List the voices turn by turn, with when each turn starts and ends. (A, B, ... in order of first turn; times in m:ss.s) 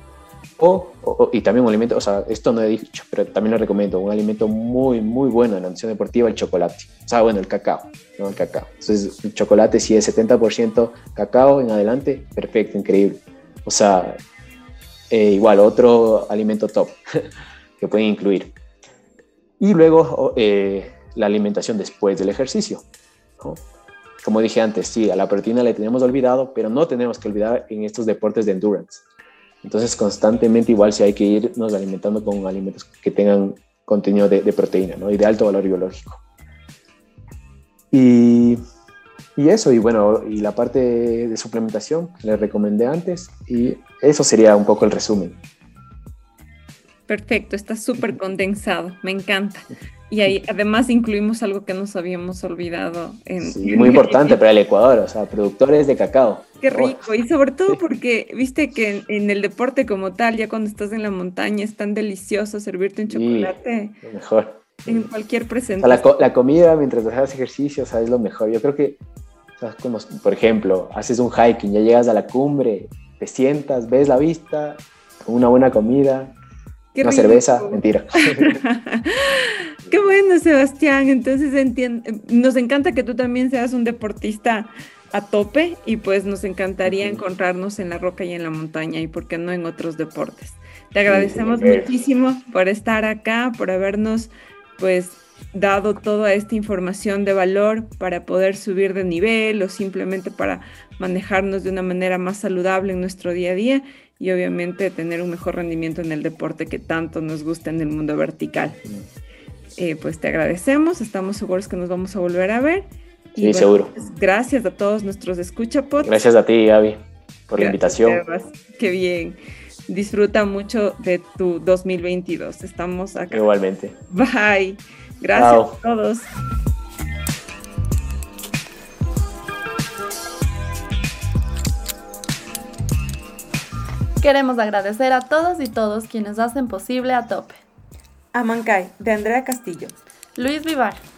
0:00.6-0:14.2 A
0:15.1-0:17.0 A
0:17.8-0:18.5 A
0:19.6-0:22.8 A
0:24.2-0:29.0 A
0:29.6-0:36.2 A
0:37.9-0:38.6 A
0:39.4-0:45.4 A
0:47.1-0:54.4 B
0:53.4-0:57.1 A
0:56.6-1:04.0 B
1:03.1-1:05.1 A
1:04.9-1:06.1 B
1:05.8-1:09.0 A
1:09.6-1:16.4 A
1:16.9-1:17.8 B
1:17.0-1:18.6 A
1:18.3-1:48.8 B
1:26.8-1:27.2 A
1:31.1-1:31.9 A
1:49.8-1:56.2 B
1:53.4-1:54.0 A
1:56.0-1:58.2 A
1:57.6-2:03.5 B
2:03.3-2:04.0 A
2:04.1-2:06.3 B
2:05.4-2:05.8 A
2:14.2-2:17.6 C
2:18.3-2:20.0 B
2:20.4-2:21.0 C